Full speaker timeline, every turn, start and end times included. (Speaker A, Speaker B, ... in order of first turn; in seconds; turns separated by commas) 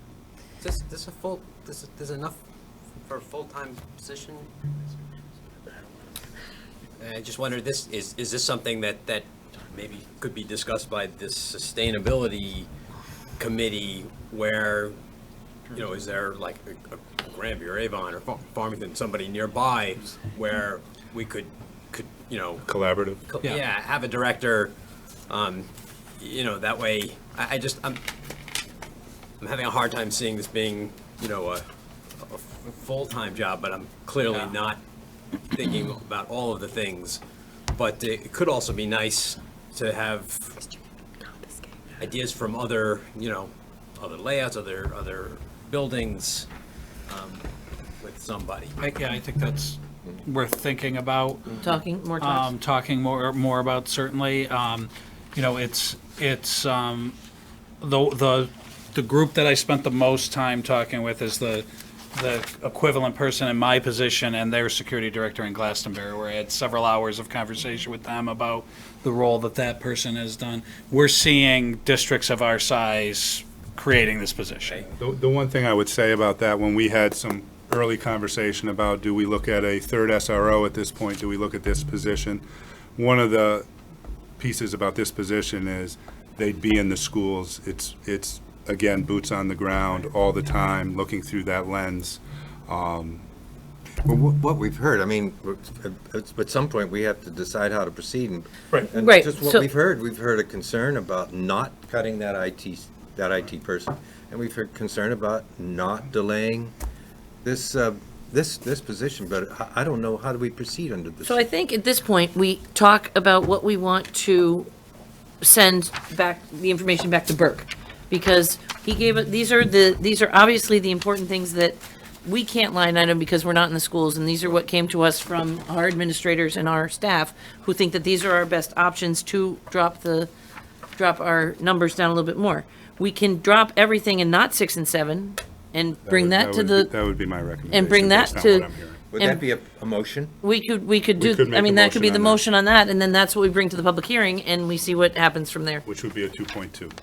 Speaker A: 0.6-2.4, Speaker A: 3.1-4.7, Speaker A: 7.0-12.7, Speaker A: 13.4-15.0, Speaker A: 15.7-22.7, Speaker B: 22.6-23.2, Speaker A: 23.3-24.7, Speaker A: 25.3-28.0, Speaker A: 29.4-31.6, Speaker A: 32.2-34.8, Speaker A: 35.5-37.2, Speaker A: 37.7-40.5, Speaker A: 42.0-46.5, Speaker A: 47.1-47.4, Speaker A: 48.0-48.7, Speaker C: 48.8-51.6, Speaker D: 51.6-52.5, Speaker C: 52.2-57.1, Speaker C: 57.8-74.8, Speaker B: 74.8-82.4, Speaker B: 83.0-83.7, Speaker B: 84.4-93.2, Speaker E: 94.0-106.7, Speaker D: 98.8-99.7, Speaker E: 107.4-111.5, Speaker D: 111.2-114.7, Speaker D: 115.4-130.3, Speaker D: 130.9-137.0, Speaker B: 136.0-139.0, Speaker D: 137.6-139.4, Speaker E: 139.1-140.3, Speaker D: 140.4-145.8, Speaker B: 141.2-142.4, Speaker B: 145.8-146.9